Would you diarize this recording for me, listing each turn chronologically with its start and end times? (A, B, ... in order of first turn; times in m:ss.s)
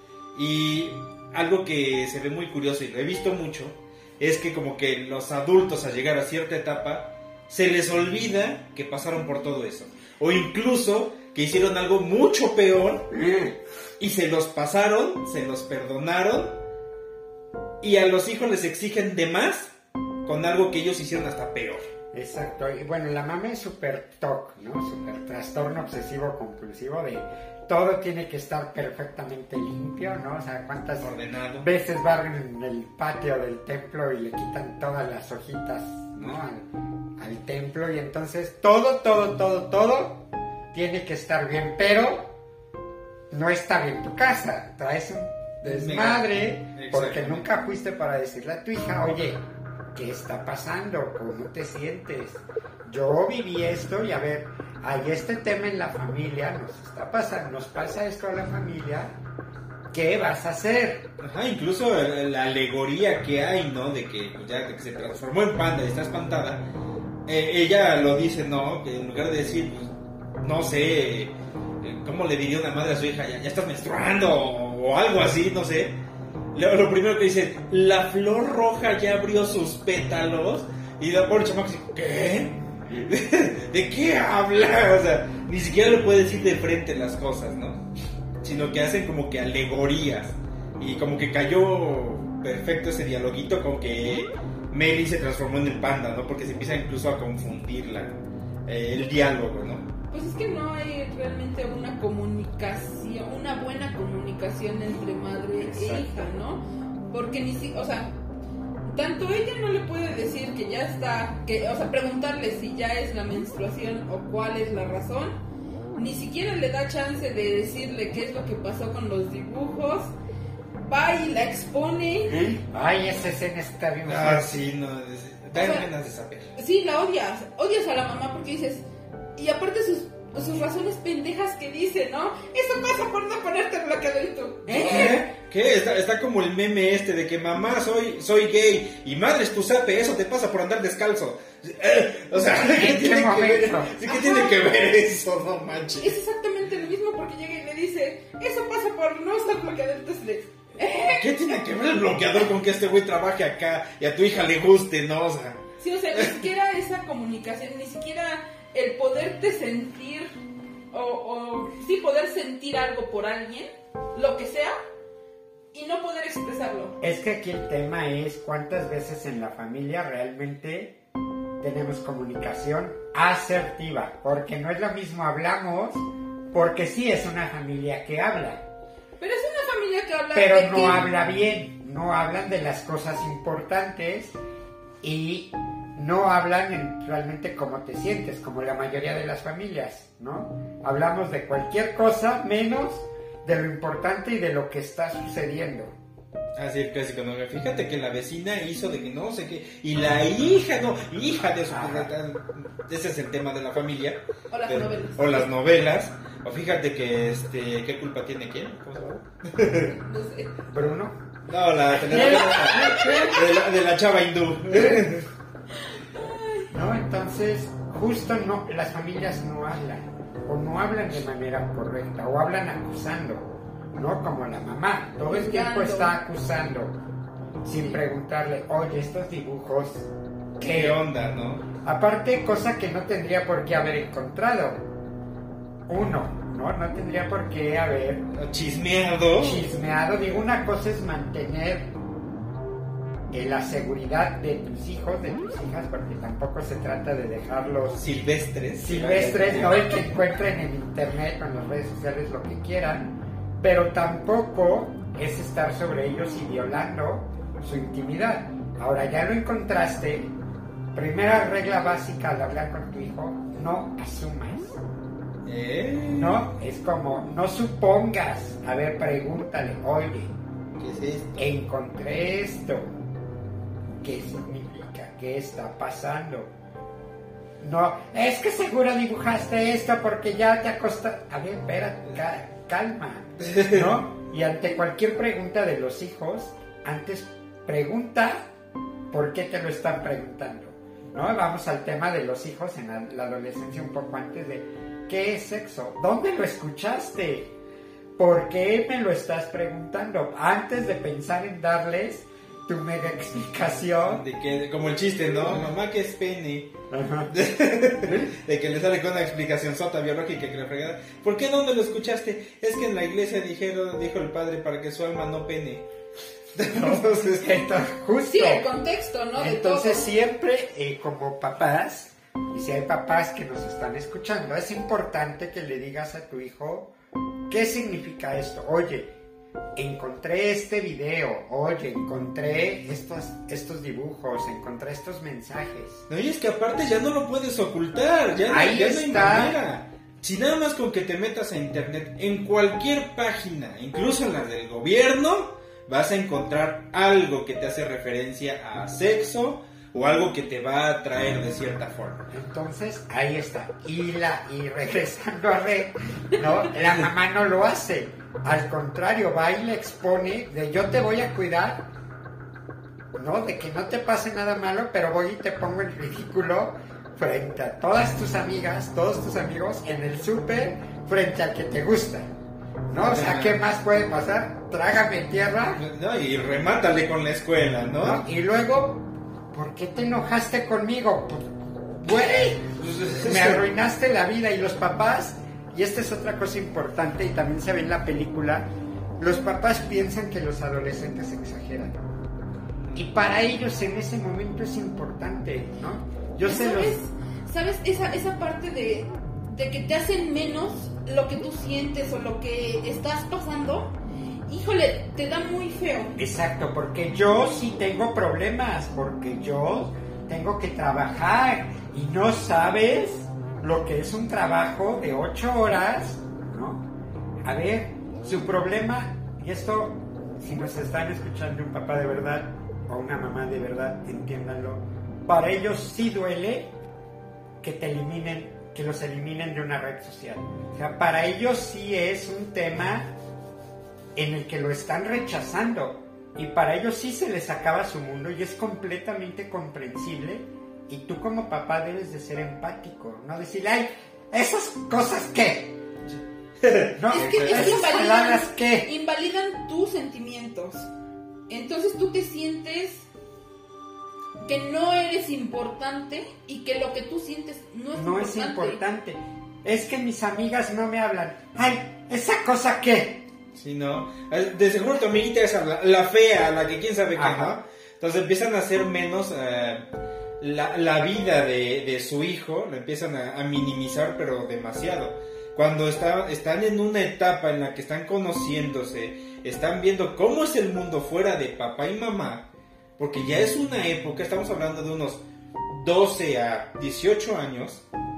0:00.3-0:13.1 A
0:13.1-0:13.6 B
0:14.0-0:16.6 A
0:17.8-0:19.7 A
0:20.2-0:21.8 A
0:22.1-0:42.3 B
0:31.0-0:31.7 A
0:43.3-0:59.1 B
0:45.6-0:47.5 A
0:59.9-1:01.1 B
1:01.2-1:06.6 A
1:07.3-1:16.0 A
1:16.5-1:27.8 A
1:28.4-1:39.9 A
1:40.1-1:48.1 C
1:45.6-1:46.3 B
1:48.8-1:55.4 C
1:55.9-2:00.1 C
2:00.8-2:02.5 C
2:02.3-2:04.6 B
2:04.0-2:06.5 A
2:05.5-2:05.9 C
2:06.5-2:08.8 C
2:09.4-2:15.3 C
2:14.7-2:26.2 A
2:22.4-2:24.0 B
2:24.1-2:24.6 C
2:26.0-2:31.4 C
2:31.0-2:35.6 A
2:35.8-2:40.3 C
2:36.1-2:36.4 A
2:40.9-2:44.8 C
2:45.7-2:47.0 C
2:47.0-2:51.0 B
2:51.6-2:58.6 B
2:59.2-3:01.1 C
3:00.3-3:04.3 B
3:05.0-3:15.9 B
3:16.6-3:29.9 A
3:21.7-3:22.1 B
3:24.5-3:25.4 C
3:29.9-3:30.5 C
3:30.7-3:31.2 B
3:31.5-3:35.3 A
3:31.9-3:33.5 B
3:32.2-3:33.3 C
3:34.7-3:35.0 B
3:36.1-3:36.7 C
3:36.7-3:46.9 B
3:45.3-3:46.2 C
3:47.6-3:51.0 B
3:50.7-3:51.6 A
3:51.8-3:54.8 B
3:55.9-3:58.3 B
3:58.3-3:59.6 A
3:59.4-4:01.9 B
4:03.3-4:08.0 B
4:08.0-4:09.8 A
4:08.8-4:20.3 B
4:20.9-4:24.8 B
4:25.4-4:26.4 A
4:26.1-4:30.3 B
4:30.8-4:31.4 A
4:31.4-4:32.9 B
4:34.0-4:36.5 B
4:37.6-4:48.5 B
4:43.4-4:43.9 A
4:49.1-4:57.5 B
4:58.2-5:04.2 B
5:04.1-5:06.7 A
5:06.9-5:07.3 B
5:07.3-5:15.8 A
5:08.0-5:08.3 B
5:16.5-5:17.7 A
5:16.6-5:18.7 B
5:18.2-5:20.1 C
5:19.4-5:26.9 B
5:27.5-5:29.1 B
5:29.8-5:36.0 B
5:36.1-5:52.3 A
5:38.5-5:39.6 B
5:52.3-6:01.9 B
6:03.1-6:12.3 B
6:12.9-6:15.8 B
6:12.9-6:13.6 A
6:15.7-6:18.2 A
6:18.0-6:28.7 B
6:22.8-6:23.6 A
6:29.2-6:32.1 B
6:32.9-6:36.9 B
6:36.4-6:43.9 C
6:44.5-6:46.2 C
6:46.2-6:56.9 B
6:57.4-7:06.7 B
7:07.6-7:13.1 B
7:14.1-7:25.8 B
7:26.1-7:27.8 A
7:26.9-7:28.9 B
7:27.1-7:30.9 C
7:31.5-7:33.1 C
7:34.4-7:38.8 C
7:37.9-7:43.2 B
7:43.5-7:49.8 A
7:47.2-7:47.6 B
7:50.4-8:07.8 A